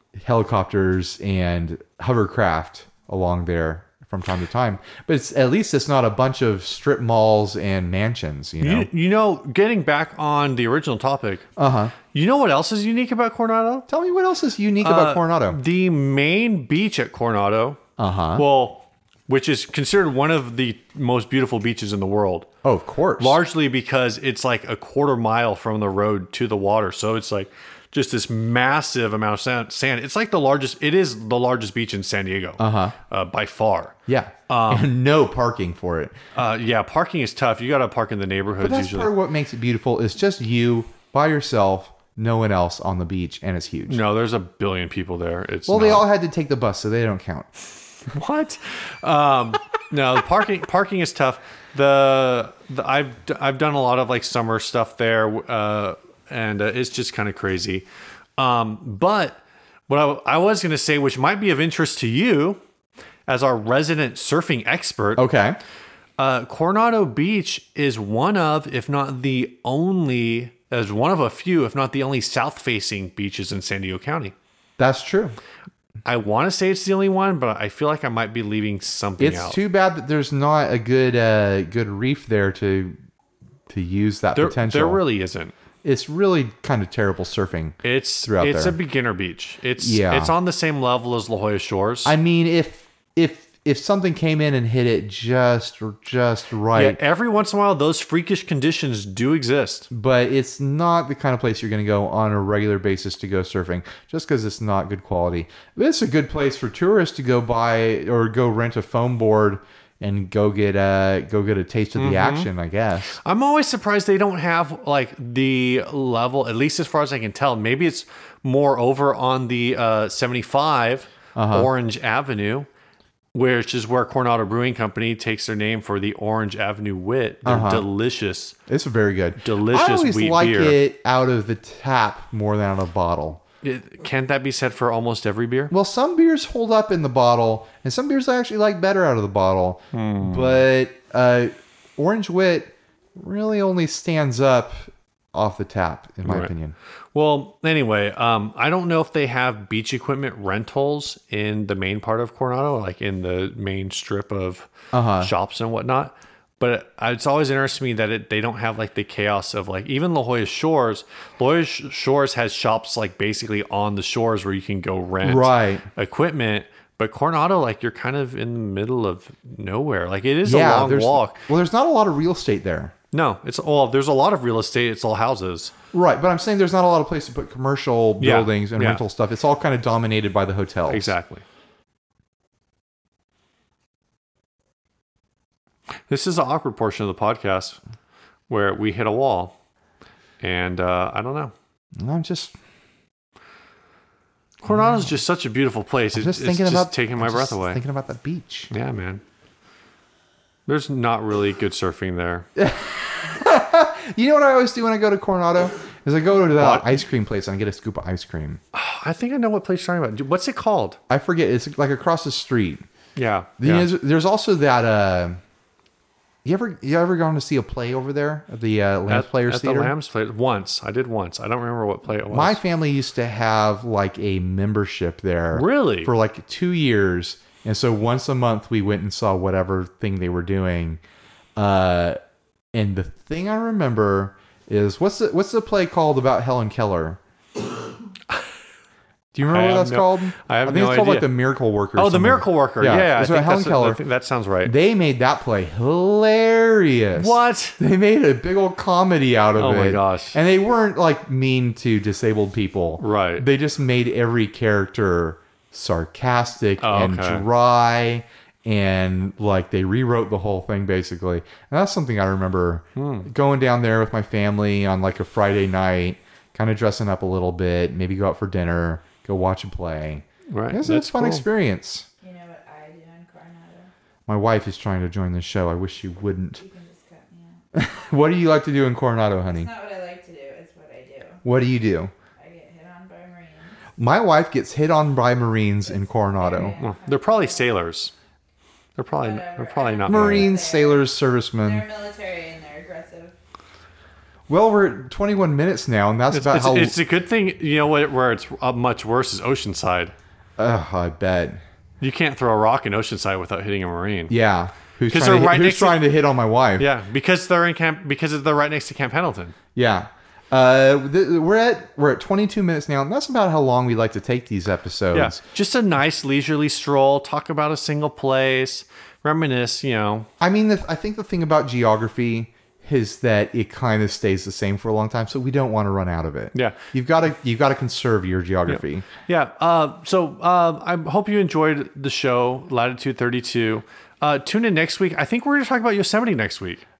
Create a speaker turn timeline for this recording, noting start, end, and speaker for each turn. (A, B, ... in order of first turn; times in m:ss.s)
0:00.2-0:08.9 A
0:08.6-0:11.4 B
0:11.6-0:11.9 A
0:12.1-0:13.9 B
0:13.9-0:15.6 A
0:14.8-0:17.8 B
0:18.0-0:18.4 A
0:18.4-0:22.5 B
0:22.6-0:23.4 A
0:23.2-0:33.9 B
0:32.6-0:32.9 A
0:34.1-0:36.2 A
0:34.5-0:34.9 B
0:36.3-0:39.1 B
0:38.6-0:44.0 A
0:43.9-0:46.1 B
0:45.7-0:47.5 A
0:48.1-0:57.8 B
0:58.4-1:02.6 B
1:03.3-1:05.2 B
1:05.2-1:05.6 A
1:06.2-1:14.3 B
1:14.8-1:15.4 A
1:16.0-1:19.6 B
1:19.2-1:23.0 A
1:23.7-1:25.0 A
1:24.3-1:25.5 B
1:25.8-1:28.7 A
1:27.8-1:32.1 B
1:29.8-1:30.3 A
1:32.0-1:37.0 A
1:36.7-1:39.9 B
1:39.9-1:53.2 A
1:52.0-1:52.5 B
1:53.1-2:02.7 B
2:01.4-2:01.7 A
2:03.3-2:08.6 B
2:07.4-2:07.8 A
2:08.7-2:13.4 A
2:09.4-2:10.8 B
2:13.6-2:15.7 B
2:15.7-2:26.7 A
2:19.9-2:20.6 B
2:26.2-2:26.5 B
2:27.1-2:51.4 B
2:34.9-2:35.3 A
2:45.2-2:45.8 A
2:50.4-2:52.9 A
2:53.1-2:55.7 B
2:55.9-3:01.1 A
2:58.2-2:59.0 B
3:00.9-3:01.4 B
3:06.1-3:07.8 B
3:08.5-3:09.5 B
3:10.4-3:11.5 B
3:12.0-3:12.5 A
3:14.6-3:17.8 B
3:14.6-3:15.1 A
3:16.1-3:18.7 A
3:18.7-3:19.2 B
3:20.7-3:22.5 B
3:22.6-3:28.6 A
3:26.5-3:27.0 B
3:28.7-3:31.0 B
3:31.1-3:32.8 A
3:33.2-3:33.9 B
3:33.6-3:35.4 A
3:36.4-3:39.9 A
3:39.1-3:42.6 B
3:42.3-3:51.0 A
3:45.5-3:46.1 B
3:51.6-3:52.2 A
3:52.7-3:57.2 A
3:59.3-4:04.0 A
3:59.5-4:01.3 B
4:02.0-4:04.7 B
4:04.6-4:32.0 A
4:07.2-4:07.8 B
4:09.6-4:10.4 B
4:13.0-4:13.4 B
4:16.8-4:17.4 B
4:23.0-4:23.3 B
4:30.5-4:31.5 B
4:32.2-4:33.9 C
4:34.3-4:36.6 A
4:36.6-4:37.6 C
4:37.7-4:39.7 A
4:39.5-4:41.4 C
4:41.4-4:42.1 A
4:42.4-4:43.8 C
4:44.0-4:46.8 A
4:45.9-4:47.7 C
4:46.8-4:48.1 B
4:49.0-4:50.5 B
4:49.2-4:53.3 C
4:50.1-4:51.8 A
4:54.5-4:56.9 A
4:56.3-5:00.1 B
5:00.6-5:01.6 A
5:02.0-5:04.3 B
5:04.3-5:06.9 A
5:05.1-5:06.0 B
5:06.8-5:09.5 B
5:09.7-5:15.4 A
5:15.1-5:20.3 B
5:20.4-5:29.0 A
5:28.7-5:36.8 B